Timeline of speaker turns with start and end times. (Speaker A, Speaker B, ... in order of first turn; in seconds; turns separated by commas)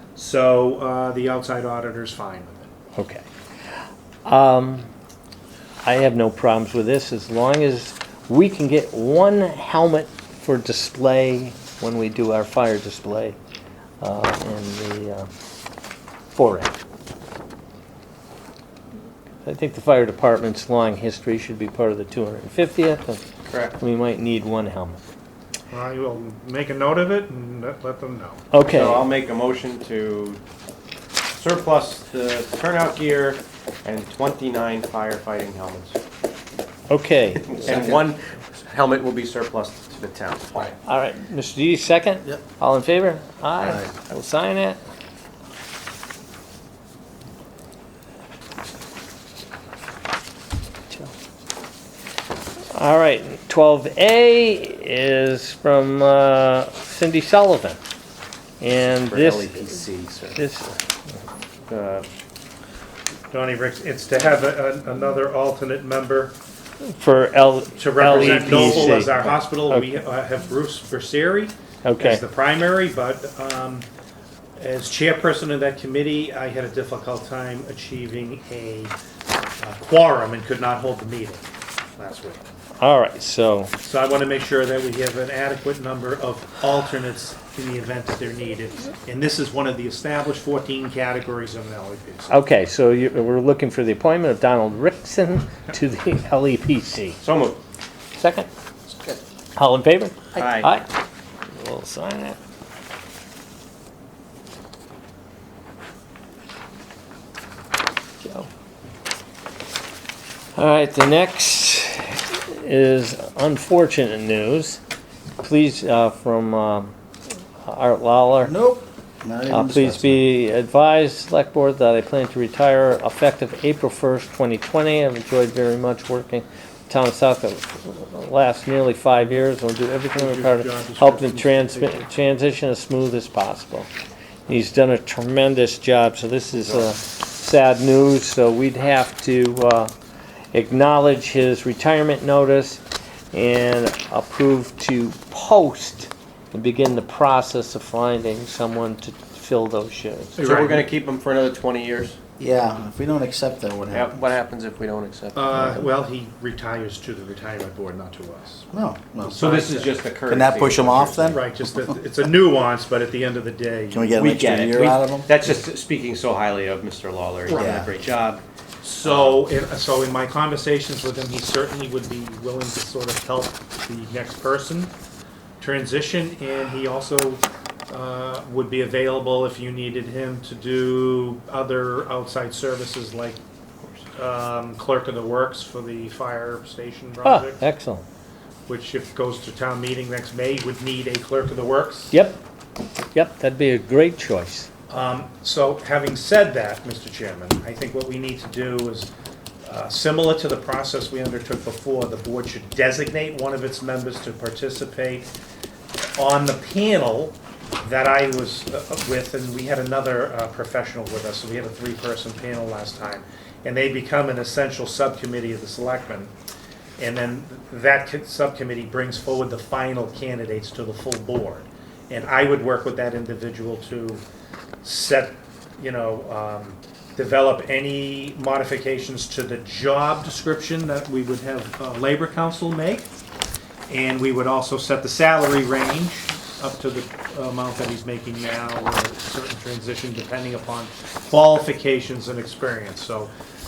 Speaker A: 0.1-2.7, Speaker B: 3.0-3.2, Speaker B: 4.2-4.9, Speaker B: 5.8-13.4, Speaker B: 14.0-15.3, Speaker B: 16.3-16.8, Speaker B: 19.4-23.2, Speaker C: 23.5-23.8, Speaker B: 23.8-25.0, Speaker A: 25.7-28.4, Speaker B: 28.5-29.1, Speaker C: 28.7-30.4, Speaker C: 31.3-36.0, Speaker B: 36.9-38.0, Speaker C: 37.5-40.7, Speaker B: 40.8-44.8, Speaker B: 52.7-57.8, Speaker B: 58.6-59.8, Speaker C: 58.9-60.4, Speaker B: 60.4-60.8, Speaker C: 61.7-62.0, Speaker A: 63.3-66.3, Speaker B: 66.9-69.9, Speaker A: 67.8-73.9, Speaker C: 68.1-69.4, Speaker B: 71.8-72.2, Speaker A: 74.6-78.9, Speaker A: 79.6-82.4, Speaker B: 82.8-83.7, Speaker A: 83.8-92.4, Speaker B: 92.3-97.2, Speaker C: 97.2-97.6, Speaker B: 98.2-98.5, Speaker B: 99.5-100.8, Speaker C: 100.3-100.7, Speaker B: 101.5-102.4, Speaker B: 108.2-108.5, Speaker B: 110.5-114.8, Speaker B: 115.4-116.9, Speaker B: 117.6-118.5, Speaker D: 118.4-120.2, Speaker B: 119.5-133.9, Speaker A: 130.1-132.1, Speaker B: 134.5-139.9, Speaker B: 140.5-142.8, Speaker B: 143.3-150.7, Speaker C: 150.4-152.2, Speaker A: 150.4-150.8, Speaker D: 152.4-154.2, Speaker C: 153.9-155.7, Speaker A: 155.3-158.7, Speaker D: 158.7-159.6, Speaker A: 159.2-160.0, Speaker C: 159.3-161.4, Speaker D: 160.3-161.5, Speaker A: 161.3-164.2, Speaker D: 163.9-165.3, Speaker C: 164.2-168.4, Speaker A: 167.5-167.8, Speaker D: 167.5-167.9, Speaker A: 168.8-174.9, Speaker C: 169.0-169.4, Speaker A: 175.6-183.4, Speaker A: 184.1-187.7, Speaker B: 187.2-188.0, Speaker A: 188.7-192.1, Speaker B: 192.1-192.4, Speaker B: 193.1-194.7, Speaker A: 194.9-199.1, Speaker A: 199.6-205.3, Speaker A: 206.2-216.3, Speaker A: 217.0-224.2, Speaker A: 224.8-233.1, Speaker A: 233.9-243.3